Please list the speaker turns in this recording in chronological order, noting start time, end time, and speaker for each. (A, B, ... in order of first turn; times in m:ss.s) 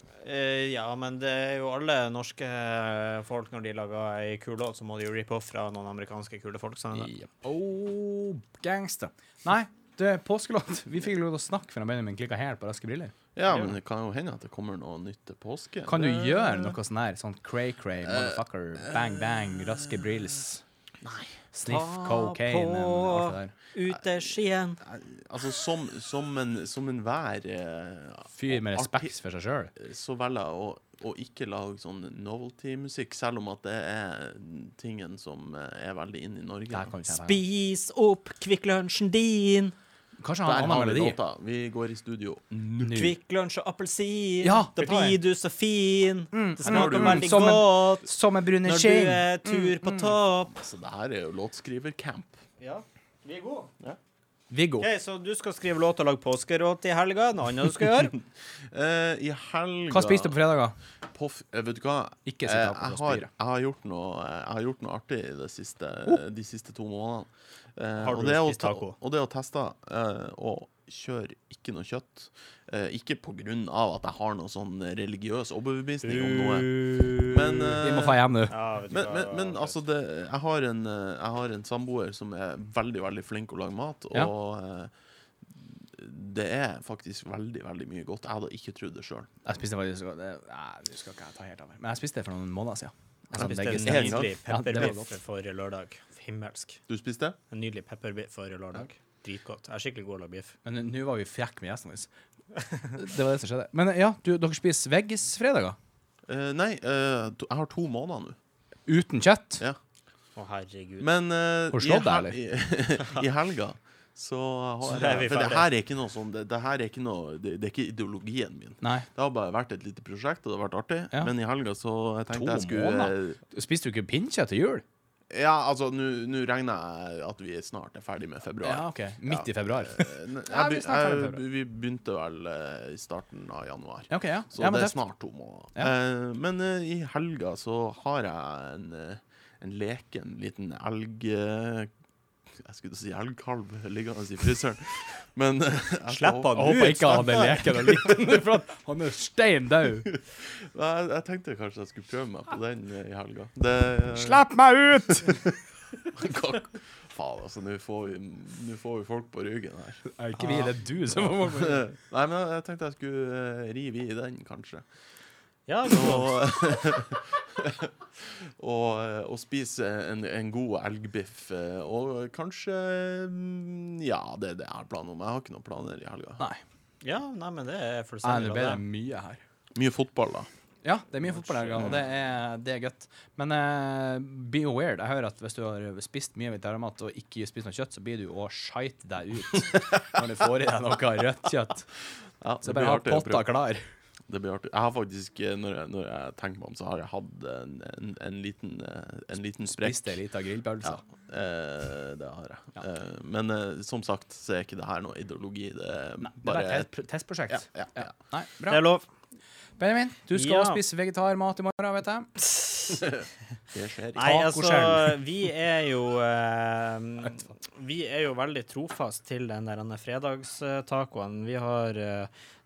0:00.2-0:07.1 A
0:07.0-0:13.1 B
0:13.4-0:16.8 C
0:13.5-0:13.7 A
0:15.9-0:20.6 B
0:18.0-0:20.1 C
0:21.0-0:21.4 C
0:21.5-0:23.5 B
0:21.6-0:24.8 A
0:23.9-0:29.2 C
0:28.3-0:29.7 B
0:29.8-0:37.0 C
0:36.7-0:37.4 B
0:37.2-0:39.8 A
0:40.2-0:41.2 B
0:40.4-0:43.1 C
0:42.8-0:43.2 B
0:43.0-0:48.1 A
0:44.4-0:45.2 B
0:46.3-0:50.1 B
0:46.6-0:47.3 C
0:48.6-0:50.5 A
0:50.5-0:52.4 C
0:52.6-0:53.7 A
0:54.5-0:54.9 B
0:54.8-0:58.2 A
0:58.6-1:00.4 C
0:59.9-1:00.8 B
1:01.1-1:18.2 C
1:02.3-1:03.3 B
1:08.0-1:09.0 A
1:16.0-1:17.8 A
1:17.8-1:18.5 B
1:18.5-1:19.8 A
1:18.9-1:24.9 C
1:25.5-1:29.3 C
1:29.4-1:35.2 B
1:33.3-1:34.9 C
1:33.4-1:36.8 A
1:36.9-1:37.4 C
1:37.5-1:40.6 A
1:40.6-1:42.1 B
1:43.0-1:45.8 B
1:46.3-1:48.4 C
1:48.9-1:49.6 B
1:50.4-1:51.1 A
1:51.0-2:03.4 C
1:51.7-1:52.4 B
1:54.8-1:55.7 A
1:58.8-1:59.1 B
2:02.3-2:04.8 B
2:05.3-2:21.9 C
2:08.6-2:11.4 B
2:14.1-2:15.0 B
2:22.5-2:27.5 C
2:26.1-2:27.6 A
2:26.6-2:30.1 B
2:30.1-2:34.5 C
2:34.2-2:35.4 B
2:35.1-2:35.6 C
2:36.1-2:44.9 C
2:40.1-2:41.9 B
2:45.7-2:46.4 A
2:45.8-2:56.4 C
2:57.0-2:58.8 A
2:58.2-2:59.4 B
2:59.8-3:00.5 C
3:00.8-3:11.9 B
3:01.4-3:02.0 A
3:12.4-3:13.6 C
3:12.6-3:13.8 B
3:14.3-3:20.2 C
3:19.6-3:21.0 B
3:20.8-3:26.9 C
3:26.2-3:28.8 B
3:27.5-3:28.1 C
3:28.7-3:29.0 A
3:29.8-3:32.3 B
3:30.3-3:30.8 A
3:32.4-3:33.0 A
3:33.7-3:34.5 C
3:34.2-3:42.3 A
3:34.2-3:35.2 B